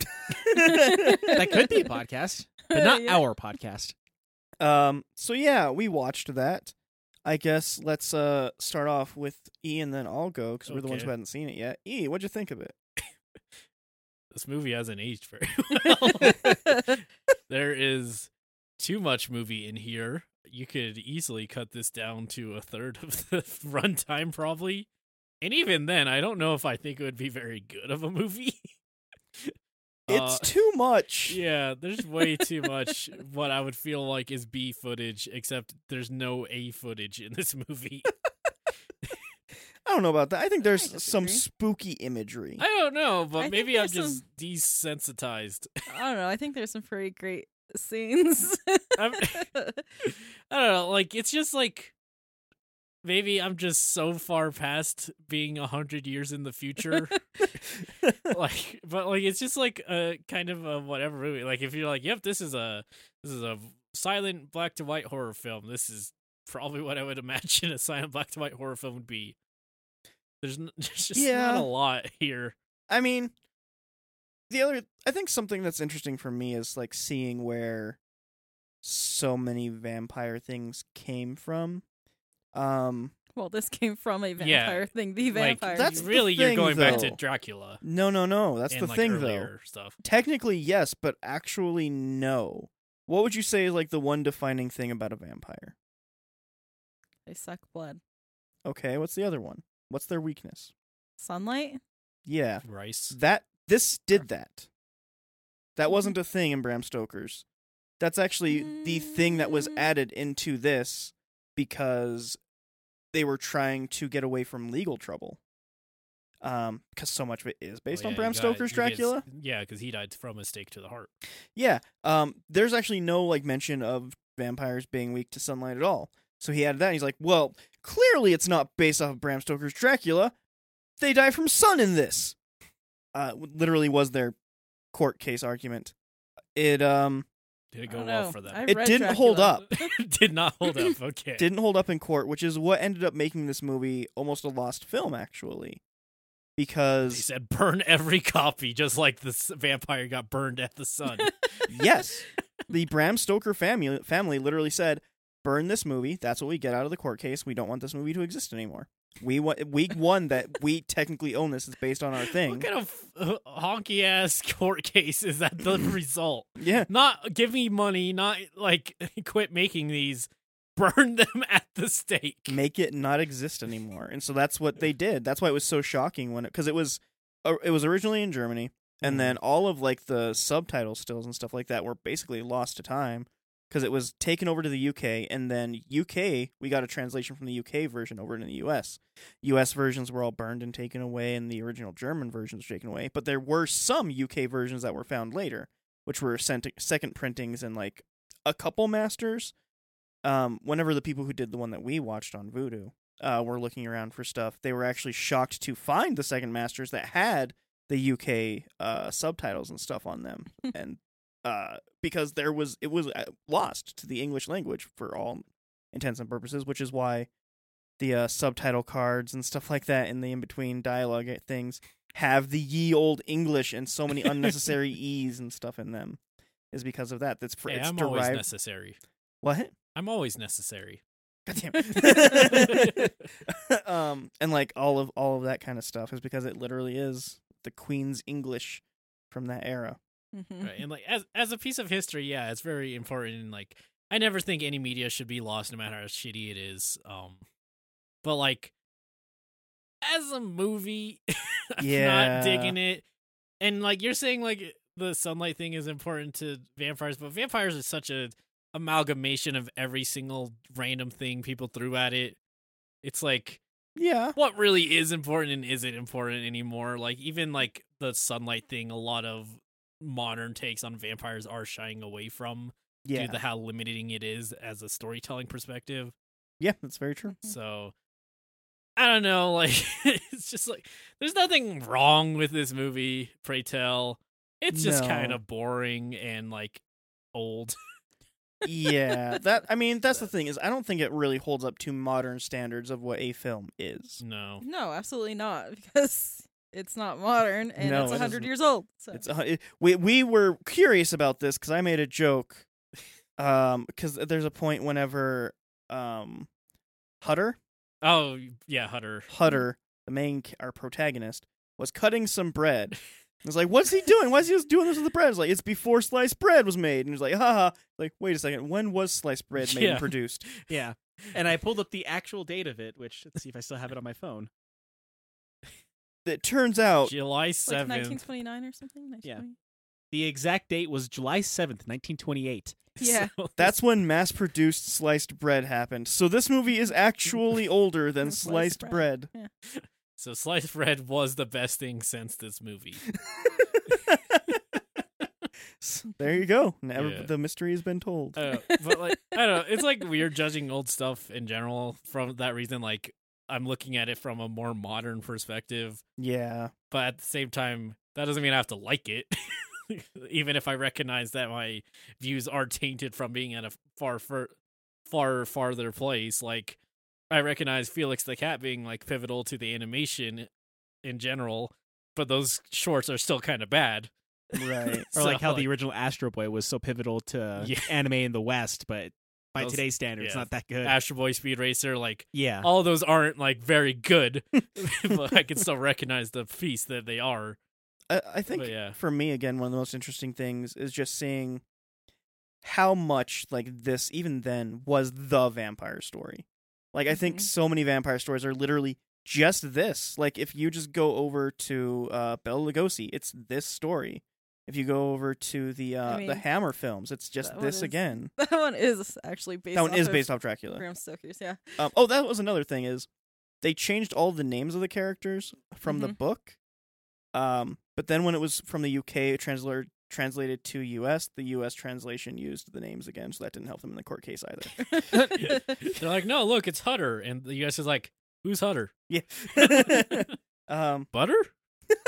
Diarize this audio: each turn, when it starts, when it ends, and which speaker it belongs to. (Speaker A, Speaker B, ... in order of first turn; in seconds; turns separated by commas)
Speaker A: 0.3-1.4, Speaker B: 0.4-1.9, Speaker C: 1.3-3.9, Speaker B: 2.7-3.2, Speaker A: 4.6-6.7, Speaker A: 7.2-12.8, Speaker D: 10.7-11.1, Speaker D: 14.3-24.9, Speaker D: 25.4-28.7, Speaker D: 30.1-30.5, Speaker A: 30.1-31.4, Speaker D: 31.3-38.2, Speaker A: 39.9-42.6, Speaker B: 40.6-41.4, Speaker D: 42.6-45.7, Speaker B: 43.4-44.2, Speaker B: 45.9-49.8, Speaker D: 49.0-49.5, Speaker D: 50.0-51.9, Speaker D: 53.0-57.2, Speaker D: 58.3-69.4, Speaker D: 70.4-72.5, Speaker A: 71.2-71.7, Speaker A: 72.9-73.3, Speaker A: 74.5-78.0, Speaker A: 78.8-81.8, Speaker A: 82.5-83.1, Speaker B: 83.3-86.1, Speaker D: 84.4-87.8, Speaker A: 85.7-87.2, Speaker B: 86.8-87.1, Speaker A: 87.8-89.5, Speaker D: 88.7-90.0, Speaker A: 90.0-95.8, Speaker B: 97.3-98.0, Speaker A: 98.7-100.7, Speaker B: 101.2-101.8, Speaker A: 102.3-104.7, Speaker D: 102.6-103.2, Speaker A: 105.8-107.5, Speaker A: 108.0-112.4, Speaker B: 108.5-109.6, Speaker A: 113.1-115.4, Speaker A: 116.4-119.2, Speaker D: 117.9-121.1, Speaker A: 121.5-130.3, Speaker A: 131.0-132.4, Speaker A: 133.1-134.4, Speaker A: 134.9-135.9, Speaker A: 136.6-137.3, Speaker D: 137.7-138.7, Speaker B: 137.9-139.9, Speaker A: 138.7-139.7, Speaker D: 139.7-141.5, Speaker A: 141.4-145.8, Speaker A: 146.6-147.3, Speaker D: 147.1-151.4, Speaker A: 151.7-162.7, Speaker D: 162.3-172.6, Speaker A: 166.6-166.9, Speaker A: 172.5-199.5, Speaker D: 179.0-179.3, Speaker A: 200.2-217.3, Speaker A: 218.0-226.2, Speaker A: 226.7-228.4, Speaker D: 227.7-229.0, Speaker A: 229.4-229.7, Speaker D: 229.9-231.0, Speaker A: 231.5-240.0, Speaker D: 231.8-233.1, Speaker B: 240.3-240.8, Speaker D: 240.6-247.4, Speaker D: 248.2-248.7, Speaker D: 250.0-251.2, Speaker D: 251.7-253.0, Speaker A: 251.8-252.8, Speaker D: 253.6-262.4, Speaker D: 263.0-263.6, Speaker A: 264.0-264.4, Speaker D: 264.4-276.1, Speaker A: 273.1-273.4, Speaker A: 276.6-277.4, Speaker D: 277.4-277.9, Speaker D: 279.0-286.8, Speaker A: 284.7-285.4, Speaker D: 287.3-287.8, Speaker A: 288.6-294.2, Speaker D: 294.2-294.6, Speaker B: 294.6-299.2, Speaker A: 297.8-298.5, Speaker A: 299.1-302.7, Speaker A: 303.4-306.5, Speaker A: 307.2-307.6, Speaker D: 308.0-309.3, Speaker A: 309.3-320.5, Speaker D: 319.6-320.7, Speaker C: 320.7-324.5, Speaker A: 326.2-327.1, Speaker D: 327.0-328.2, Speaker B: 327.7-329.6, Speaker C: 330.1-332.8, Speaker B: 333.0-333.3, Speaker D: 333.0-333.7, Speaker A: 333.6-339.3, Speaker B: 338.3-339.5, Speaker D: 339.7-343.1, Speaker A: 343.3-344.6, Speaker A: 345.8-348.4, Speaker D: 347.0-347.3, Speaker D: 348.4-356.0, Speaker B: 348.5-349.4, Speaker A: 356.2-356.7, Speaker D: 356.9-364.5, Speaker D: 365.1-366.8, Speaker D: 367.3-370.5, Speaker D: 371.0-375.7, Speaker A: 374.5-375.1, Speaker C: 375.1-380.9, Speaker D: 377.6-377.9, Speaker D: 379.6-387.6, Speaker C: 382.3-382.7, Speaker A: 388.1-391.6, Speaker D: 388.5-389.0, Speaker A: 392.6-408.3, Speaker B: 397.1-397.5, Speaker B: 406.1-406.4, Speaker B: 407.4-411.8, Speaker A: 409.7-410.8, Speaker A: 411.8-413.1, Speaker A: 413.6-416.6, Speaker B: 415.9-416.2, Speaker A: 417.3-425.0, Speaker B: 424.8-425.7, Speaker C: 425.1-425.4, Speaker D: 425.4-428.9, Speaker A: 429.1-431.1, Speaker D: 429.5-430.3, Speaker D: 431.1-431.5